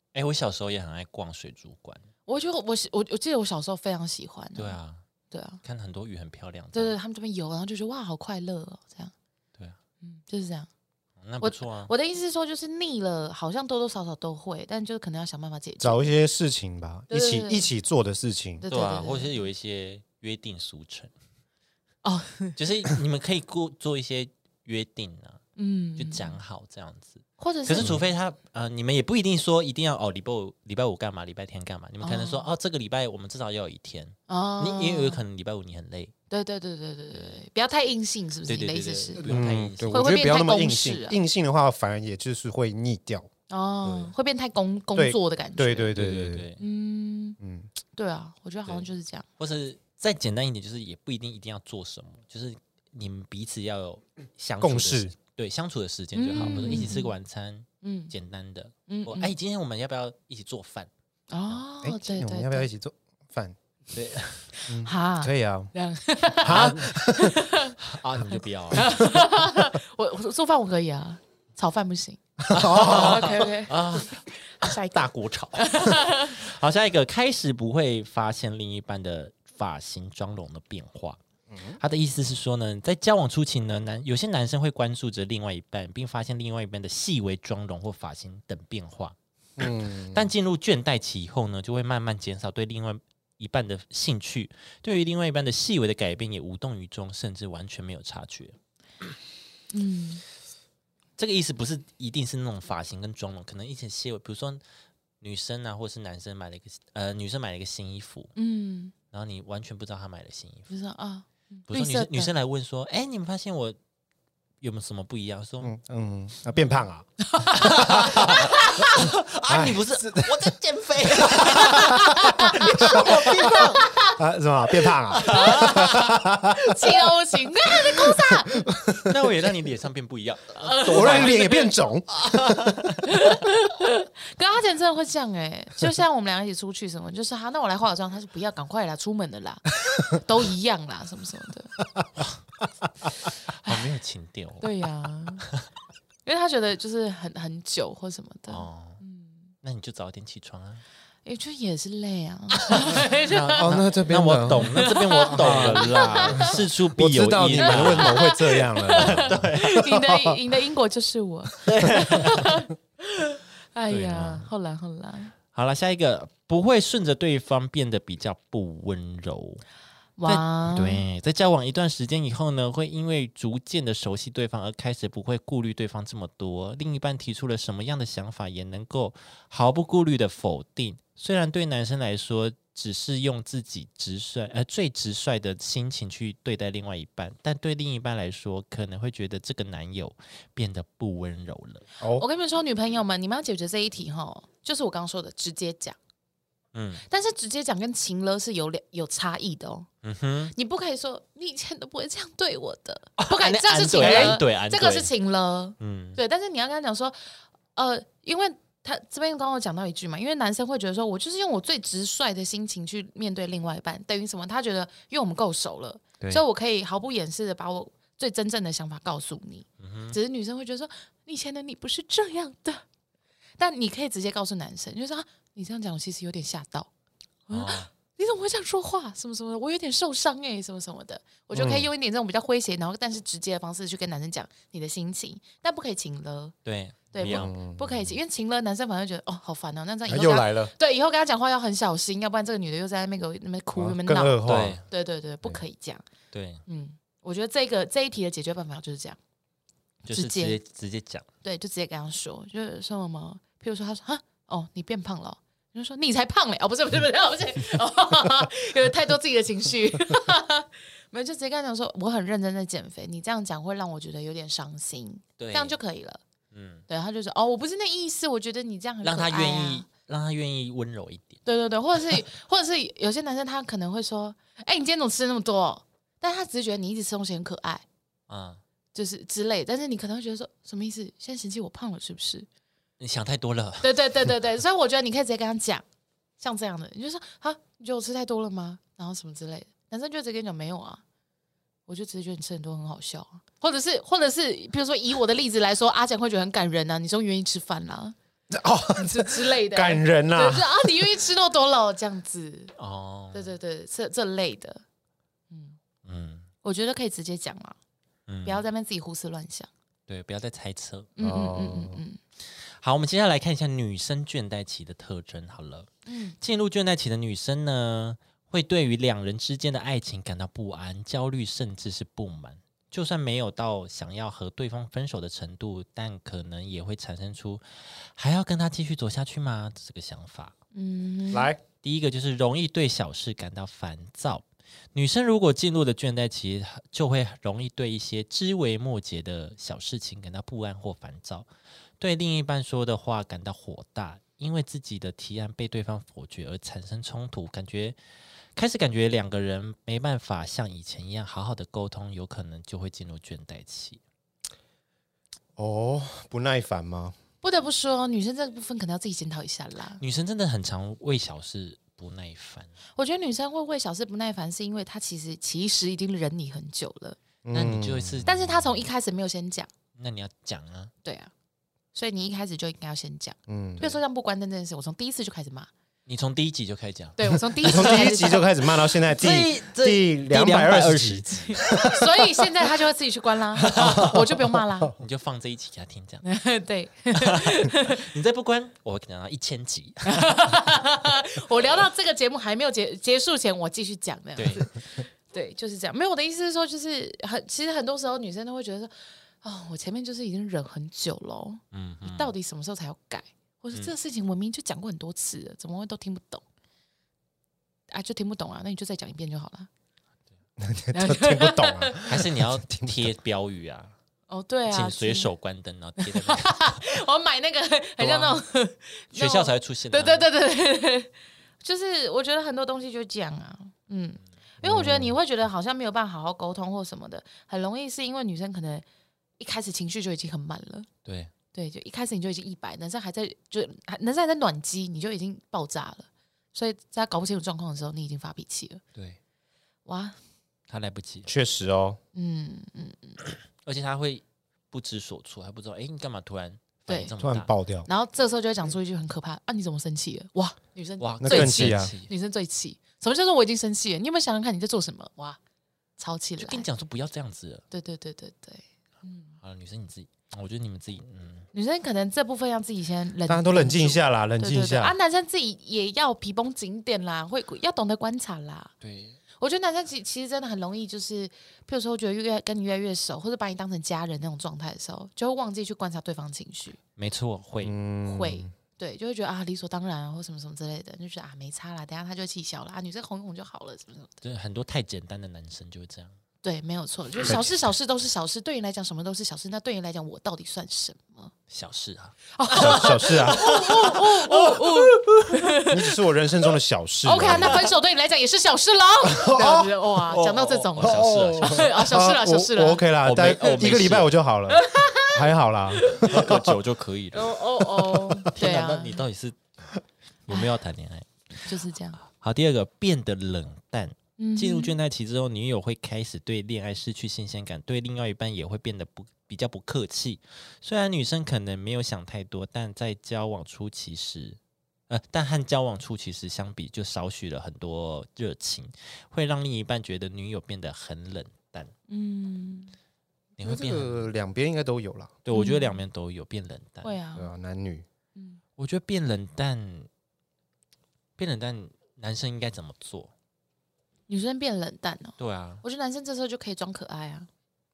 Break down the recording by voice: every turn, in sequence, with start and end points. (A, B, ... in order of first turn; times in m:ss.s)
0:00.1-0:02.1 A
0:02.3-0:04.8 B
0:04.5-0:05.0 A
0:05.3-0:05.6 B
0:05.6-0:07.0 A
0:06.7-0:09.1 B
0:10.0-0:10.7 B
0:11.2-0:11.9 A
0:11.4-0:16.2 B
0:15.8-0:18.6 C
0:17.1-0:17.7 B
0:18.6-0:19.4 B
0:18.7-0:21.1 A
0:22.0-0:22.6 B
0:22.6-0:25.4 A
0:25.6-0:26.4 B
0:26.0-0:36.1 A
0:27.4-0:28.0 B
0:32.0-0:32.5 B
0:34.3-0:35.2 B
0:36.3-0:39.3 B
0:37.1-0:37.4 A
0:38.5-0:40.0 A
0:39.2-0:43.3 C
0:39.9-0:41.2 B
0:43.5-0:46.0 B
0:43.8-0:44.1 C
0:44.9-0:46.5 C
0:45.9-0:46.6 A
0:46.6-0:47.4 B
0:47.4-0:47.7 C
0:47.9-0:49.2 B
0:48.6-1:00.9 A
0:54.6-0:55.1 C
0:56.1-0:57.1 B
0:56.4-0:56.9 C
0:57.8-0:58.1 B
0:58.9-0:59.3 B
1:01.3-1:02.7 B
1:01.8-1:03.6 C
1:03.9-1:04.5 A
1:04.6-1:07.8 B
1:04.7-1:05.7 C
1:06.4-1:07.4 C
1:06.4-1:06.9 A
1:07.8-1:09.0 A
1:08.7-1:12.2 B
1:12.5-1:13.3 C
1:12.5-1:21.2 A
1:12.7-1:16.4 B
1:21.5-1:21.8 C
1:21.8-1:38.6 A
1:29.6-1:30.3 C
1:39.7-1:40.2 B
1:41.2-1:44.6 A
1:45.2-1:48.3 A
1:48.3-1:48.9 B
1:49.1-1:50.7 A
1:50.7-1:52.3 B
1:51.7-1:53.8 A
1:54.6-1:55.7 A
1:55.6-1:57.1 C
1:57.3-1:58.9 B
1:57.5-2:03.9 A
1:57.6-1:58.3 C
1:59.5-2:00.5 C
2:01.2-2:06.9 C
2:01.7-2:04.1 B
2:05.1-2:06.2 A
2:05.2-2:08.6 B
2:07.9-2:09.2 C
2:09.0-2:13.2 A
2:10.6-2:11.7 B
2:10.9-2:12.8 C
2:13.1-2:21.7 B
2:23.5-2:24.9 A
2:24.6-2:25.5 B
2:26.2-2:29.5 B
2:28.5-2:29.0 A
2:29.6-2:30.8 A
2:31.2-2:33.7 B
2:32.8-2:38.2 A
2:33.6-2:40.4 C
2:34.7-2:36.6 B
2:37.6-2:45.3 B
2:38.9-2:39.8 A
2:41.6-2:42.4 A
2:43.9-2:44.5 A
2:45.5-2:49.6 A
2:50.2-2:51.0 B
2:50.2-3:11.8 A
3:12.1-3:16.0 B
3:16.7-3:17.0 A
3:17.1-3:19.9 B
3:20.0-3:20.5 A
3:20.5-3:27.2 B
3:23.2-3:25.1 A
3:24.0-3:24.4 C
3:25.8-3:26.2 A
3:27.8-3:42.8 B
3:39.8-3:40.2 A
3:43.6-3:46.9 B
3:47.5-3:56.5 B
3:47.5-3:47.9 A
3:51.5-3:51.9 C
3:56.6-3:57.5 A
3:57.1-4:06.0 B
3:57.2-3:58.1 C
4:00.1-4:00.7 C
4:03.7-4:04.8 C
4:04.4-4:04.8 A
4:06.3-4:06.6 A
4:06.7-4:09.2 B
4:10.0-4:10.6 B
4:10.1-4:11.3 A
4:11.4-4:26.2 B
4:25.4-4:25.8 A
4:26.5-4:26.8 A
4:26.9-4:29.8 B
4:29.0-4:31.4 A
4:31.4-4:37.8 B
4:38.3-4:38.6 A
4:38.9-4:42.5 B
4:43.0-4:43.9 A
4:43.8-4:45.8 B
4:46.4-4:51.0 B
4:51.9-4:58.1 B
4:58.5-5:00.7 C
4:59.0-5:02.7 B
5:02.8-5:03.5 A
5:03.3-5:04.8 B
5:05.5-5:05.8 B
5:06.0-5:06.5 A
5:06.6-5:07.8 B
5:08.3-5:08.6 A
5:08.4-5:09.7 B
5:10.1-5:11.1 A
5:11.2-5:12.2 B
5:11.2-5:12.0 C
5:12.4-5:30.5 A
5:16.0-5:16.4 B
5:30.7-5:31.5 B
5:31.3-5:31.6 C
5:31.8-5:41.5 A
5:42.0-5:48.0 A
5:48.6-5:54.0 A
5:55.6-5:57.2 C
5:57.4-6:00.0 B
6:00.0-6:02.7 A
6:03.0-6:07.2 B
6:07.4-6:08.2 C
6:07.5-6:08.8 A
6:08.2-6:09.7 B
6:10.0-6:10.9 A
6:11.0-6:11.3 B
6:11.9-6:15.7 B
6:13.5-6:13.9 C
6:16.0-6:17.2 A
6:17.2-6:18.5 B
6:17.6-6:22.1 C
6:19.1-6:21.9 A
6:21.5-6:24.9 B
6:23.6-6:24.2 A
6:23.7-6:24.9 C
6:24.9-6:26.2 A
6:26.2-6:28.0 B
6:27.1-6:30.5 A
6:30.1-6:46.4 B
6:34.4-6:34.7 A
6:41.7-6:42.3 A
6:47.9-6:49.7 B
6:50.6-6:53.1 C
6:50.9-6:52.1 B
6:52.0-6:54.0 A
6:54.3-6:55.3 B
6:54.7-6:56.8 A
6:56.0-7:01.1 B
6:58.0-6:58.4 A
6:59.1-7:00.3 A
7:01.6-7:08.8 B
7:04.6-7:05.1 C
7:09.4-7:10.9 B
7:11.0-7:11.3 A
7:11.5-7:18.8 B
7:19.8-7:20.2 B
7:20.7-7:21.3 A
7:21.2-7:22.0 C
7:22.1-7:23.2 B
7:23.6-7:27.5 A
7:26.9-7:27.1 B
7:27.2-7:27.9 C
7:27.9-7:35.4 B
7:31.0-7:32.1 A
7:31.2-7:31.9 C
7:36.0-7:36.6 B
7:36.4-7:37.6 A
7:37.7-7:39.4 B
7:39.4-7:41.5 A
7:41.5-7:48.7 B
7:43.3-7:44.9 C
7:48.8-7:49.2 A
7:49.3-7:56.8 B
7:57.0-7:57.7 A
7:57.6-7:58.5 C
7:58.0-8:04.2 B
8:04.2-8:06.2 A
8:06.4-8:11.3 B
8:07.2-8:07.5 A
8:11.5-8:15.5 A
8:12.4-8:16.0 B
8:12.6-8:13.5 C
8:15.7-8:17.6 C
8:17.0-8:22.8 B
8:17.2-8:17.6 A
8:19.0-8:19.7 C
8:20.1-8:21.6 A
8:20.8-8:26.5 C
8:23.0-8:24.1 A
8:24.5-8:26.2 B
8:26.0-8:27.3 A
8:27.1-8:29.0 B
8:28.3-8:29.4 A
8:30.3-8:44.4 A
8:31.4-8:32.0 B
8:34.2-8:34.7 B
8:44.9-8:51.7 A
8:51.9-8:52.7 B
8:53.4-8:54.1 A
8:53.4-8:55.1 C
8:55.2-8:57.0 A
8:55.3-8:55.8 B
8:56.8-8:57.3 B
8:57.1-8:57.8 C
8:58.1-8:58.4 B
8:58.6-8:59.9 A
9:01.2-9:03.1 A
9:04.1-9:07.3 B
9:05.2-9:05.6 A